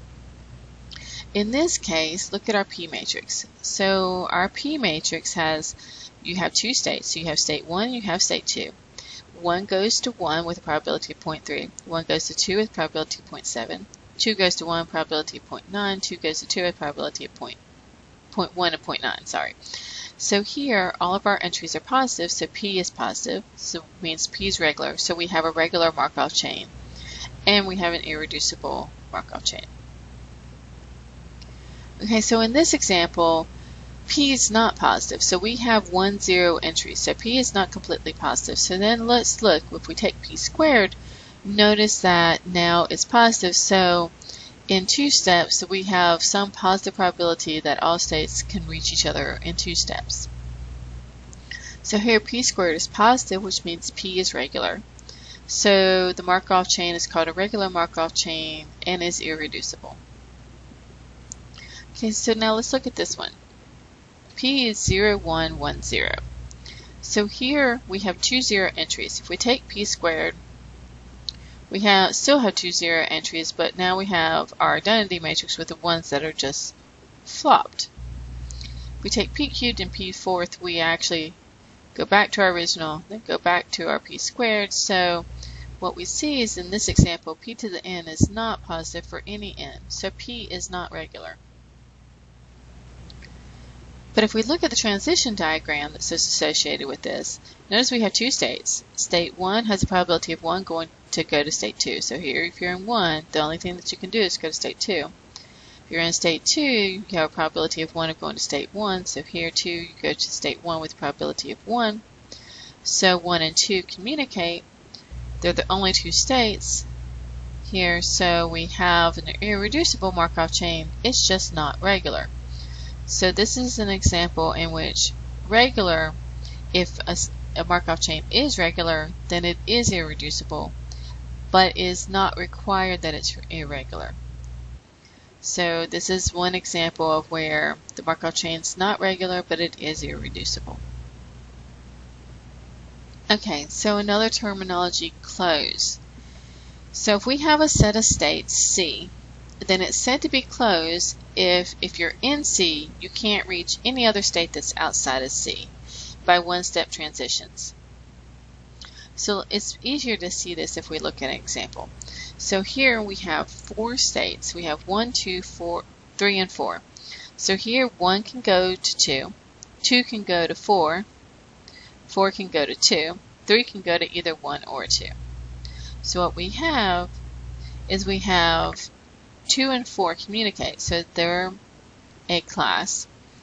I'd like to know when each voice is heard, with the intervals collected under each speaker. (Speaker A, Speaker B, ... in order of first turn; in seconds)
Speaker A: 1.3-8.7, 9.3-17.6, 18.3-19.6, 20.2-26.7, 27.5-29.7, 32.0-33.5, 34.0-44.1, 44.7-50.3, 51.8-54.8, 55.5-60.0, 61.9-63.4, 64.3-66.2, 67.0-70.4, 71.7-77.9, 79.0-81.4, 81.9-85.3, 85.8-91.4, 94.1-105.1, 105.9-112.0, 112.8-114.6, 115.4-116.9, 117.6-122.3, 123.1-126.2, 126.7-130.7, 131.5-134.2, 135.4-140.8, 143.3-146.0, 146.9-149.1, 149.6-155.7, 156.2-157.7, 159.2-166.8, 167.4-171.1, 172.1-175.1, 176.0-177.1, 177.9-178.9, 179.5-181.6, 182.3-183.1